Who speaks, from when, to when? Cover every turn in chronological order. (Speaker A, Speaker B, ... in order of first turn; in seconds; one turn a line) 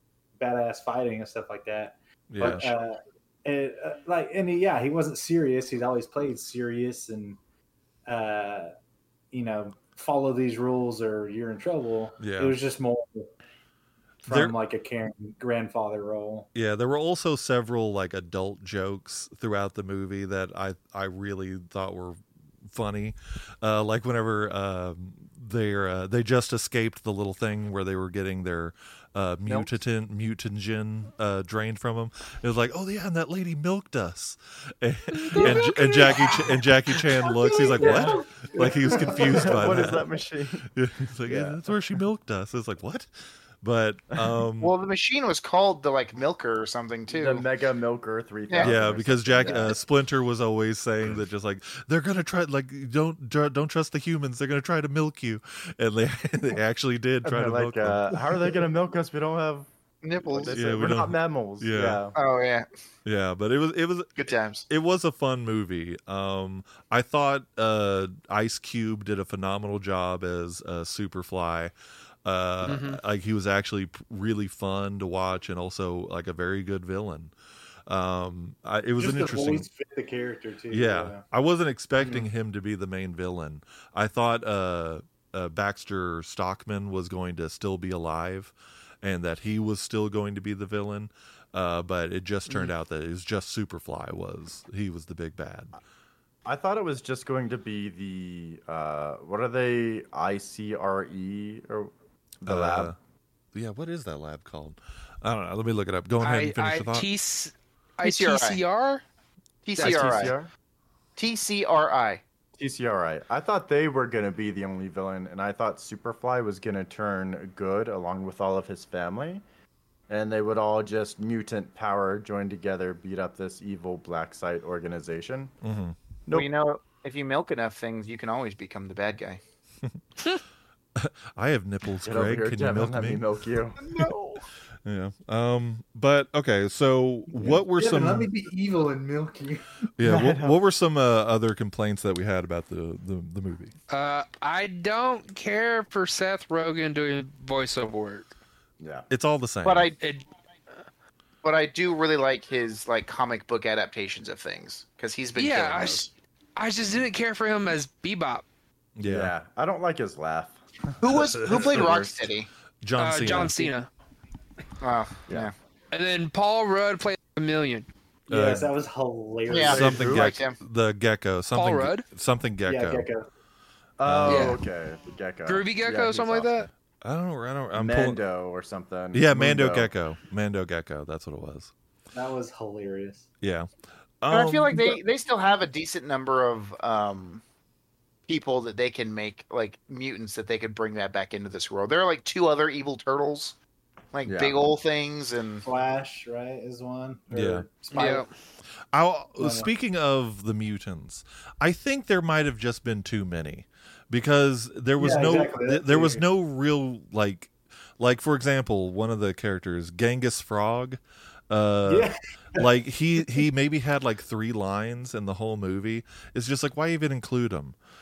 Speaker A: 0.4-7.4
Speaker B: 2.3-2.7
Speaker A: 8.1-8.7
Speaker A: 9.3-13.3
Speaker B: 12.2-12.6
Speaker A: 14.2-16.5
Speaker B: 14.3-14.5
Speaker B: 16.5-40.0
Speaker C: 35.2-36.4
Speaker A: 35.4-35.7
Speaker A: 37.4-39.7
Speaker D: 37.8-40.7
Speaker B: 40.7-43.1
Speaker D: 41.2-41.6
Speaker B: 43.6-44.7
Speaker E: 44.6-47.4
Speaker D: 47.1-49.8
Speaker E: 48.5-48.7
Speaker B: 48.6-58.2
Speaker D: 57.2-59.7
Speaker E: 60.0-61.0
Speaker D: 60.2-62.1
Speaker B: 60.5-62.0
Speaker E: 62.1-62.6
Speaker B: 63.0-71.7
Speaker E: 64.2-64.7
Speaker B: 72.2-77.3
Speaker C: 72.6-73.0
Speaker B: 77.9-79.7
Speaker A: 79.0-81.2
Speaker B: 80.7-95.7
Speaker D: 96.4-102.9
Speaker B: 102.4-103.0
Speaker B: 103.5-107.1
Speaker C: 106.2-109.0
Speaker E: 108.0-108.6
Speaker E: 109.7-110.3
Speaker C: 109.8-110.3
Speaker D: 109.8-110.5
Speaker E: 111.2-112.2
Speaker D: 112.6-119.4
Speaker D: 120.1-125.5
Speaker B: 125.6-126.0
Speaker E: 126.3-129.4
Speaker B: 130.9-133.2
Speaker D: 132.0-134.1
Speaker B: 134.8-138.3
Speaker A: 137.7-139.6
Speaker B: 140.0-143.7
Speaker D: 140.0-140.6
Speaker C: 143.9-148.3
Speaker D: 148.8-149.1
Speaker B: 149.1-149.9
Speaker E: 149.6-149.9
Speaker C: 150.0-150.2
Speaker E: 151.4-156.1
Speaker C: 155.3-158.4
Speaker B: 159.0-159.3
Speaker D: 159.0-162.3
Speaker E: 161.0-162.5
Speaker B: 161.4-161.7
Speaker B: 162.8-163.6
Speaker C: 162.9-163.9
Speaker A: 163.3-163.7
Speaker E: 164.8-165.5
Speaker C: 165.9-167.9
Speaker A: 168.3-170.0
Speaker B: 168.3-168.7
Speaker E: 169.5-170.6
Speaker D: 169.6-170.3
Speaker B: 169.7-173.1
Speaker C: 171.5-172.1
Speaker A: 172.7-173.3
Speaker D: 174.0-176.7
Speaker B: 174.0-174.6
Speaker C: 174.2-174.6
Speaker C: 175.4-176.7
Speaker B: 177.0-178.2
Speaker D: 177.7-179.9
Speaker B: 179.1-181.7
Speaker A: 182.1-183.2
Speaker B: 183.4-183.7
Speaker B: 184.2-184.8
Speaker E: 184.3-187.4
Speaker E: 188.3-193.6
Speaker E: 194.1-195.6
Speaker D: 194.2-194.6
Speaker A: 195.6-198.2
Speaker B: 197.3-197.7
Speaker C: 197.9-198.3
Speaker B: 198.9-217.8
Speaker A: 199.4-199.7
Speaker A: 205.0-206.2
Speaker A: 211.8-212.7